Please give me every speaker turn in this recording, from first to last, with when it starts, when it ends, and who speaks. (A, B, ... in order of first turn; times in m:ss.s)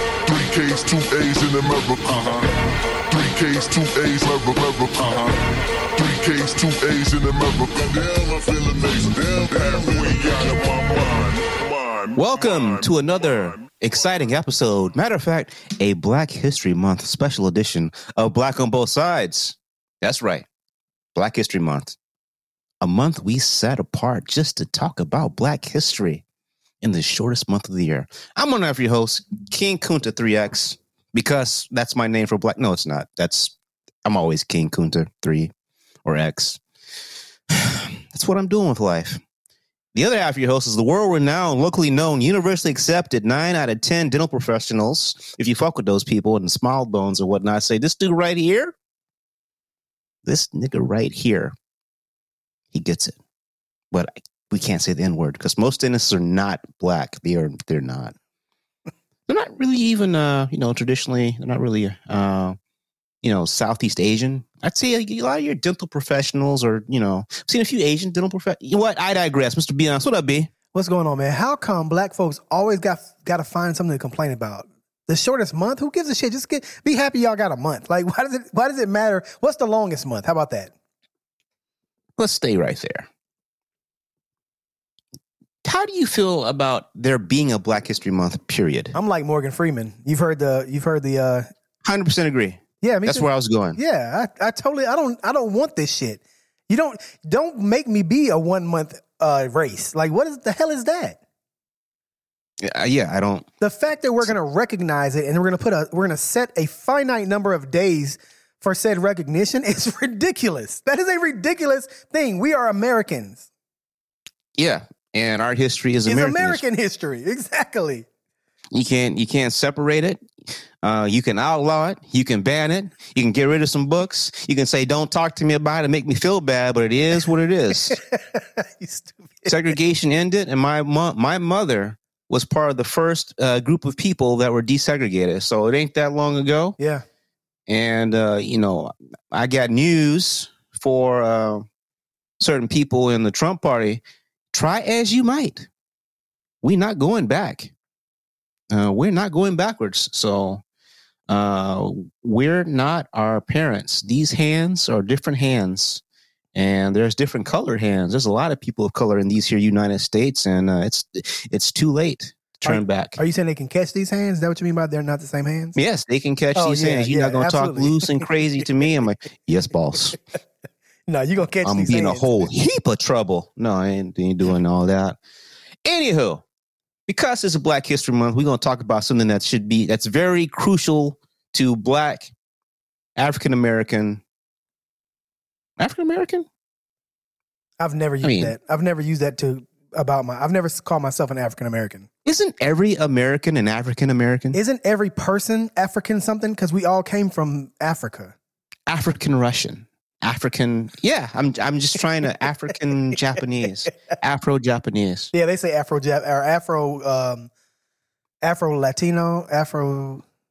0:00.3-0:02.6 A
0:03.1-0:05.4 A
0:06.0-0:12.8 A
0:12.2-0:20.5 B
0:21.2-0:22.0 B
0:22.8-0:26.2 B
0:26.8-0:33.5 B
0:34.0-0:35.5 B
0:36.0-0:36.6 B
0:37.5-0:39.2 B
0:40.0-0:48.7 B
0:50.2-0:51.5 B
0:52.7-0:53.2 B
0:53.9-0:58.1 B
0:59.3-1:02.6 B
1:03.2-1:10.5 B
1:10.7-1:20.7 C
1:22.2-1:23.1 B
1:25.6-1:28.9 B
1:28.9-1:31.5 C
1:31.8-1:33.8 B
1:32.8-1:41.2 C
1:42.6-1:43.5 B
1:43.6-1:53.5 C
1:54.6-1:56.6 B
1:56.1-1:58.1 C
1:58.7-2:00.2 B
2:00.8-2:08.0 B
2:07.9-2:09.6 C
2:09.5-2:16.8 B
2:16.8-2:17.0 C
2:17.7-2:21.7 B
2:22.4-2:24.0 B
2:24.5-2:25.7 B
2:26.6-2:27.7 B
2:28.7-2:30.6 B
2:31.3-2:36.0 B
2:36.6-2:43.2 B
2:42.6-2:45.8 C
2:45.8-2:50.2 B
2:46.6-2:48.3 C
2:51.1-2:52.4 C
2:51.6-2:55.2 B
2:55.8-2:56.4 B
2:57.1-3:02.3 B
3:03.2-3:04.2 B
3:05.8-3:06.5 B
3:07.8-3:12.1 C
3:08.2-3:08.5 B
3:12.2-3:14.6 B
3:14.5-3:18.3 C
3:18.9-3:25.3 B
3:25.3-3:27.5 C
3:28.4-3:30.2 C